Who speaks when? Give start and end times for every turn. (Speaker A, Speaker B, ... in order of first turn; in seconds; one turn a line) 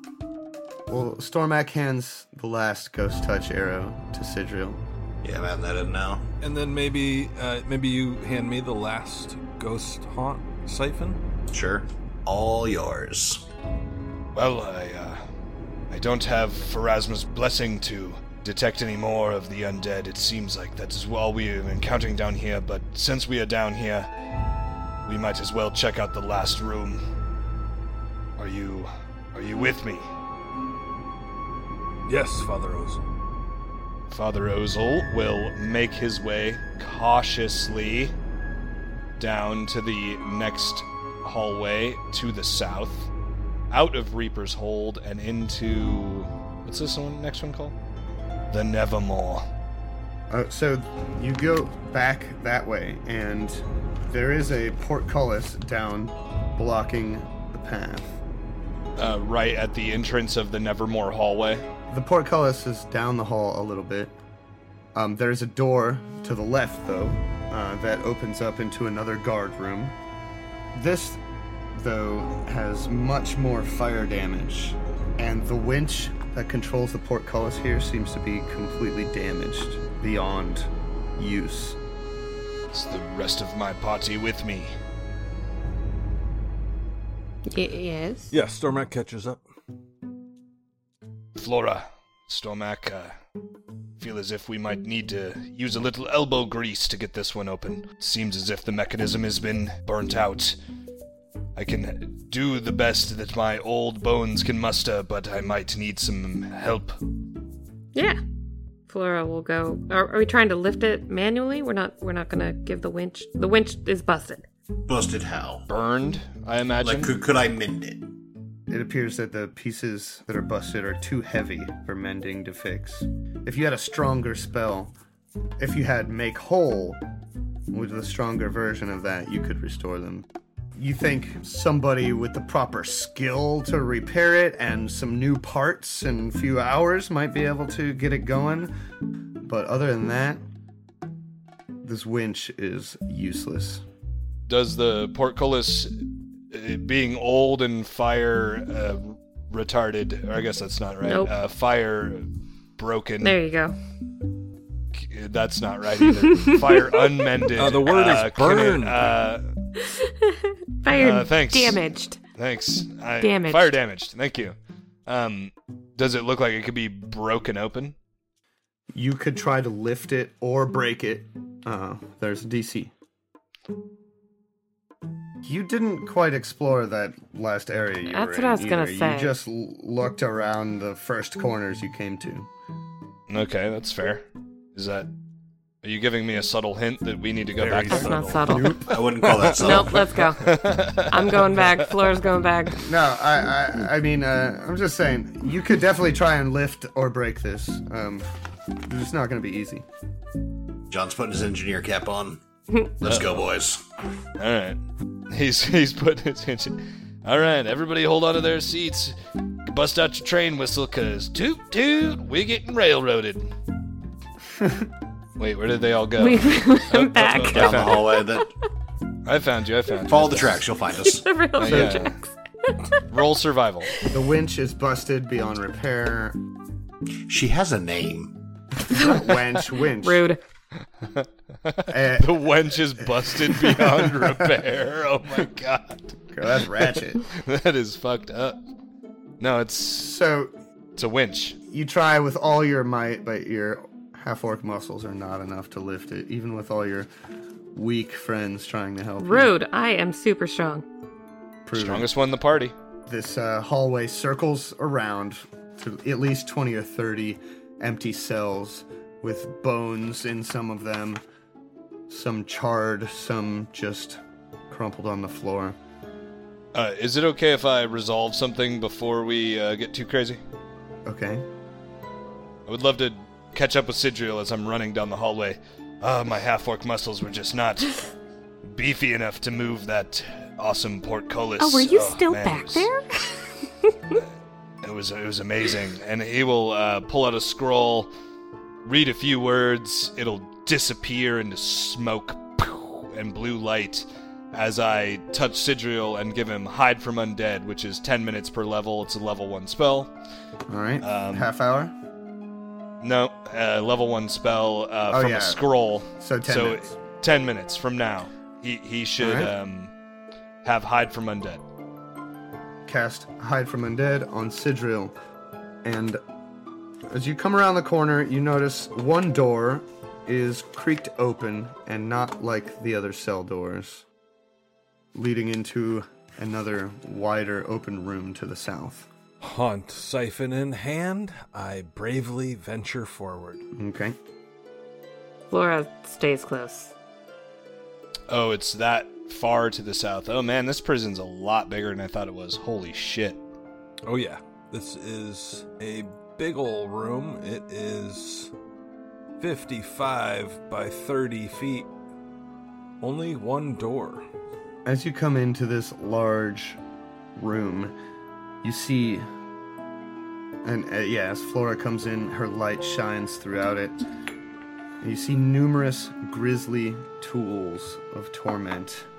Speaker A: 0.9-4.8
Speaker B: 5.2-6.2
Speaker C: 6.4-11.2
Speaker B: 11.5-13.5
Speaker D: 14.3-15.2
Speaker D: 15.9-24.1
Speaker D: 25.1-27.0
Speaker D: 28.4-30.1
Speaker C: 32.1-33.0
Speaker D: 34.1-38.1
Speaker D: 39.2-43.1
Speaker D: 43.7-47.8
Speaker D: 48.5-49.5
Speaker A: 50.3-58.2
Speaker D: 59.0-61.6
Speaker A: 61.9-64.2
Speaker A: 65.0-70.0
Speaker A: 70.7-71.2
Speaker A: 71.7-81.8
Speaker D: 82.7-84.7
Speaker E: 87.5-88.3
Speaker C: 88.3-89.4
Speaker D: 91.4-93.2
Speaker D: 94.0-100.6
Speaker D: 101.5-107.0
Speaker E: 107.9-108.2
Speaker E: 108.9-114.5
Speaker B: 114.9-115.7
Speaker D: 115.7-117.1
Speaker B: 116.8-118.1
Speaker A: 118.7-124.9
Speaker A: 125.6-127.0
Speaker A: 127.7-138.7
Speaker A: 139.4-140.4
Speaker A: 141.8-143.8
Speaker D: 144.5-145.9
Speaker D: 146.5-153.4
Speaker E: 151.1-151.3
Speaker E: 153.2-153.8
Speaker D: 154.9-159.5
Speaker E: 156.0-157.2
Speaker C: 157.6-159.2
Speaker E: 159.8-162.2
Speaker D: 160.9-161.8
Speaker D: 162.4-164.6
Speaker E: 163.2-163.7
Speaker D: 165.1-167.9
Speaker A: 168.9-172.9
Speaker A: 175.4-182.5
Speaker E: 178.1-179.3
Speaker D: 183.3-185.1
Speaker D: 185.8-188.2
Speaker C: 187.6-188.7
Speaker E: 187.9-188.9
Speaker A: 188.5-189.0
Speaker B: 188.9-190.1
Speaker C: 189.2-190.0
Speaker E: 189.5-192.8
Speaker D: 190.4-191.7
Speaker A: 192.8-198.3
Speaker A: 198.9-199.9
Speaker B: 200.9-203.8
Speaker D: 203.0-203.5
Speaker D: 204.4-204.8
Speaker D: 205.3-213.5
Speaker A: 214.6-214.9
Speaker D: 215.4-218.3
Speaker E: 216.2-218.5
Speaker B: 217.5-218.5
Speaker D: 219.2-220.7
Speaker B: 220.1-221.3
Speaker E: 221.0-223.1
Speaker D: 221.6-222.2
Speaker A: 221.7-222.0
Speaker D: 223.1-223.9
Speaker A: 224.1-226.4
Speaker B: 227.3-228.3
Speaker E: 228.9-230.4
Speaker A: 228.9-230.3
Speaker D: 231.0-238.6
Speaker A: 231.9-232.4
Speaker A: 233.3-234.6
Speaker A: 236.3-237.3
Speaker D: 239.4-240.2
Speaker A: 240.0-240.5
Speaker D: 241.0-241.6
Speaker A: 241.7-247.1
Speaker A: 247.7-249.5
Speaker E: 249.2-250.8
Speaker A: 251.7-252.1
Speaker D: 251.8-252.8
Speaker A: 253.1-261.2
Speaker A: 262.1-265.8
Speaker D: 266.7-270.4
Speaker A: 271.1-271.5
Speaker D: 272.7-278.0
Speaker D: 278.6-282.9
Speaker E: 281.6-284.2
Speaker D: 284.8-288.1
Speaker D: 288.9-300.1
Speaker A: 300.7-301.9
Speaker D: 301.0-301.5
Speaker D: 303.0-309.9
Speaker A: 305.1-305.6
Speaker A: 306.1-306.9
Speaker A: 309.2-309.6
Speaker D: 310.6-311.6
Speaker A: 312.9-315.1
Speaker A: 315.8-316.2
Speaker A: 317.1-324.1
Speaker A: 325.1-329.1
Speaker C: 329.4-333.6
Speaker A: 333.8-334.2
Speaker E: 335.5-336.9
Speaker D: 338.3-343.4
Speaker C: 344.1-348.5
Speaker C: 349.4-351.9
Speaker C: 353.0-354.2
Speaker A: 354.9-356.8
Speaker A: 357.4-357.9
Speaker A: 358.6-359.3
Speaker A: 360.6-364.0
Speaker A: 365.0-369.1